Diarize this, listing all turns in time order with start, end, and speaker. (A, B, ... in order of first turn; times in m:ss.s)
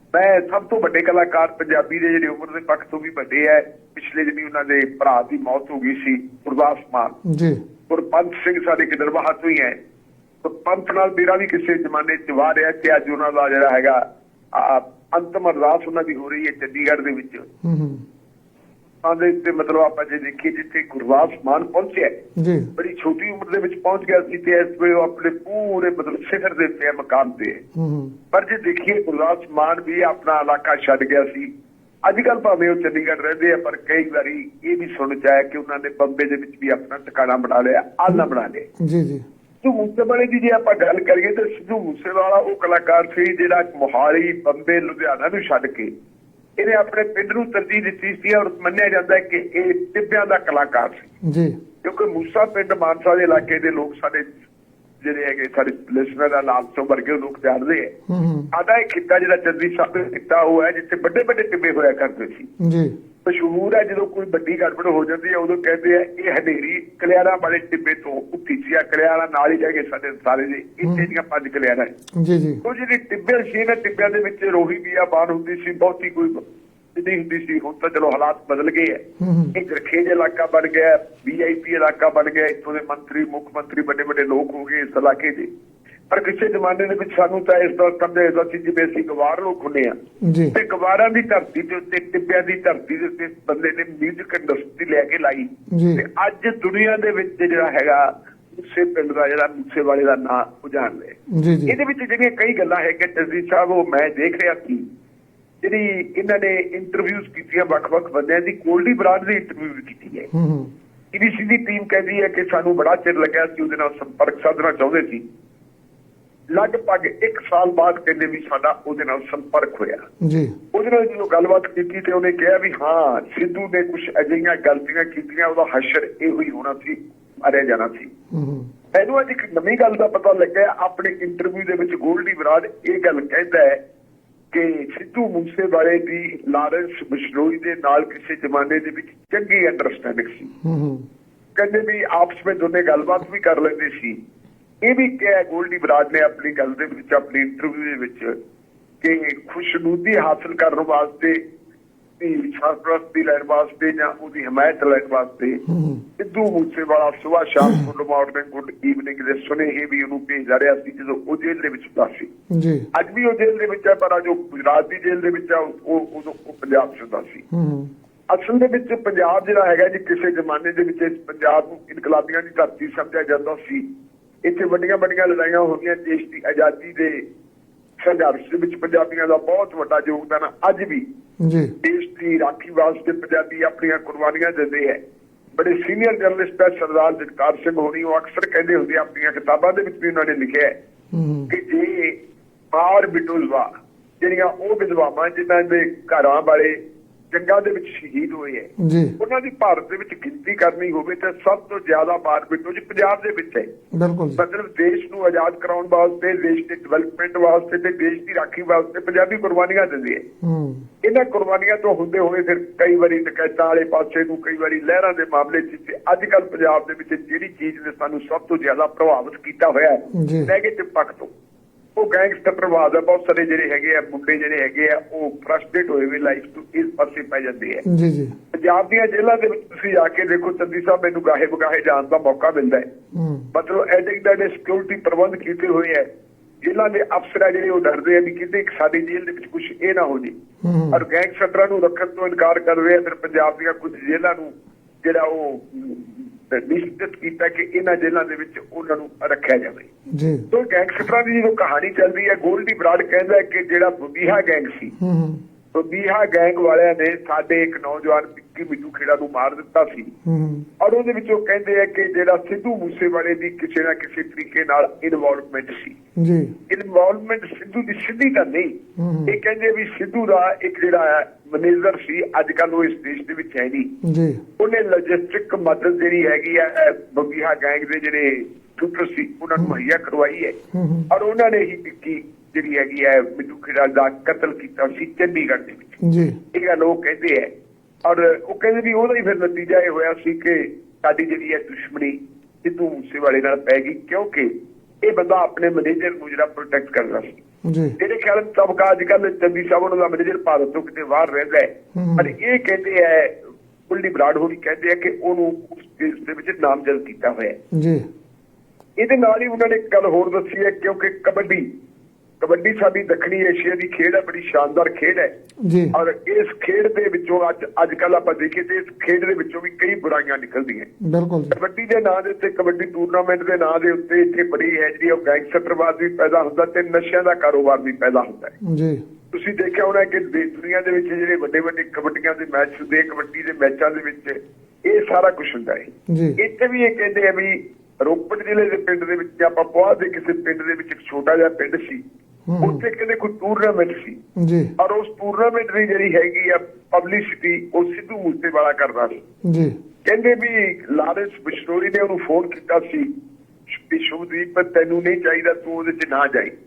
0:00.1-0:07.2 A
0:07.2-0:07.6 B
0:07.9-0:09.8 A
0:10.4-0:14.0 A
0:14.5-0:17.4 A
0:17.6-0:18.0 B
0:19.0-0:22.1 A
0:22.4-0:22.7 B
0:22.8-0:27.6 A
0:27.8-0:28.1 B
0:28.3-0:31.5 A
0:32.0-0:38.6 A
0:38.8-0:39.2 B
0:39.6-0:45.9 A
0:46.6-0:51.1 A
0:51.2-0:51.5 B
0:51.8-0:54.3 A
0:55.0-0:57.9 A
0:58.1-0:58.5 B
0:58.5-1:02.5 A
1:02.6-1:03.0 B
1:03.2-1:11.9 A
1:10.8-1:11.1 B
1:12.2-1:12.6 B
1:12.6-1:16.4 A
1:16.9-1:19.0 A
1:19.2-1:19.5 B
1:19.5-1:25.5 A
1:26.1-1:30.0 A
1:30.2-1:30.5 B
1:30.5-1:44.8 A
1:35.7-1:36.0 B
1:41.3-1:41.7 B
1:45.6-1:50.3 A
1:50.3-1:50.7 B
1:51.1-1:55.2 A
1:56.5-2:00.0 A
2:00.2-2:00.5 B
2:00.7-2:08.1 A
2:08.3-2:08.7 B
2:08.9-2:13.8 A
2:14.5-2:20.5 A
2:20.6-2:21.0 B
2:21.6-2:24.2 A
2:24.8-2:28.4 A
2:29.0-2:31.4 A
2:32.2-2:35.6 A
2:35.7-2:36.0 B
2:36.2-2:42.3 A
2:42.5-2:42.8 B
2:42.9-2:47.4 A
2:47.5-2:47.9 B
2:48.3-2:53.8 A
2:54.4-2:57.2 A
2:58.0-3:01.0 A
3:01.4-3:01.7 B
3:01.8-3:05.0 A
3:05.6-3:10.7 A
3:11.1-3:11.5 B
3:11.5-3:12.2 A
3:12.7-3:13.7 A
3:14.2-3:16.8 A
3:17.3-3:18.7 A
3:18.8-3:19.1 B
3:19.2-3:23.7 A
3:23.9-3:24.4 B
3:24.4-3:30.2 A
3:30.4-3:30.9 B
3:31.0-3:41.3 A
3:40.1-3:40.5 B
3:42.0-3:47.8 A
3:47.8-3:48.3 B
3:48.5-3:52.8 A
3:53.1-3:53.5 B
3:53.5-3:56.1 A
3:56.6-4:00.3 A
4:00.6-4:01.0 B
4:00.9-4:09.9 A
4:10.1-4:10.4 B
4:10.5-4:14.9 A
4:15.0-4:15.4 B
4:15.7-4:20.1 A
4:20.2-4:20.7 B
4:20.8-4:26.0 A
4:26.2-4:26.5 B
4:26.7-4:33.9 A
4:29.0-4:29.4 B
4:34.0-4:34.4 B
4:34.6-4:40.6 A
4:40.7-4:41.1 B
4:41.1-4:46.0 A
4:46.0-4:46.4 B
4:46.5-4:47.5 A
4:48.0-4:57.4 A
4:57.6-4:57.9 B
4:58.0-5:03.4 A
5:01.9-5:02.3 B
5:03.9-5:07.6 A
5:07.7-5:08.0 B
5:09.0-5:11.6 A
5:12.4-5:15.3 A
5:15.6-5:15.9 B
5:15.9-5:20.9 A
5:21.0-5:21.5 B
5:21.5-5:28.5 A
5:28.6-5:29.0 B
5:29.3-5:42.0 A
5:36.1-5:36.4 B
5:42.5-5:42.8 B
5:42.6-5:44.2 A
5:44.4-5:44.7 B
5:44.8-5:49.2 A
5:49.4-5:49.7 B
5:50.0-5:53.1 A
5:53.7-5:56.5 A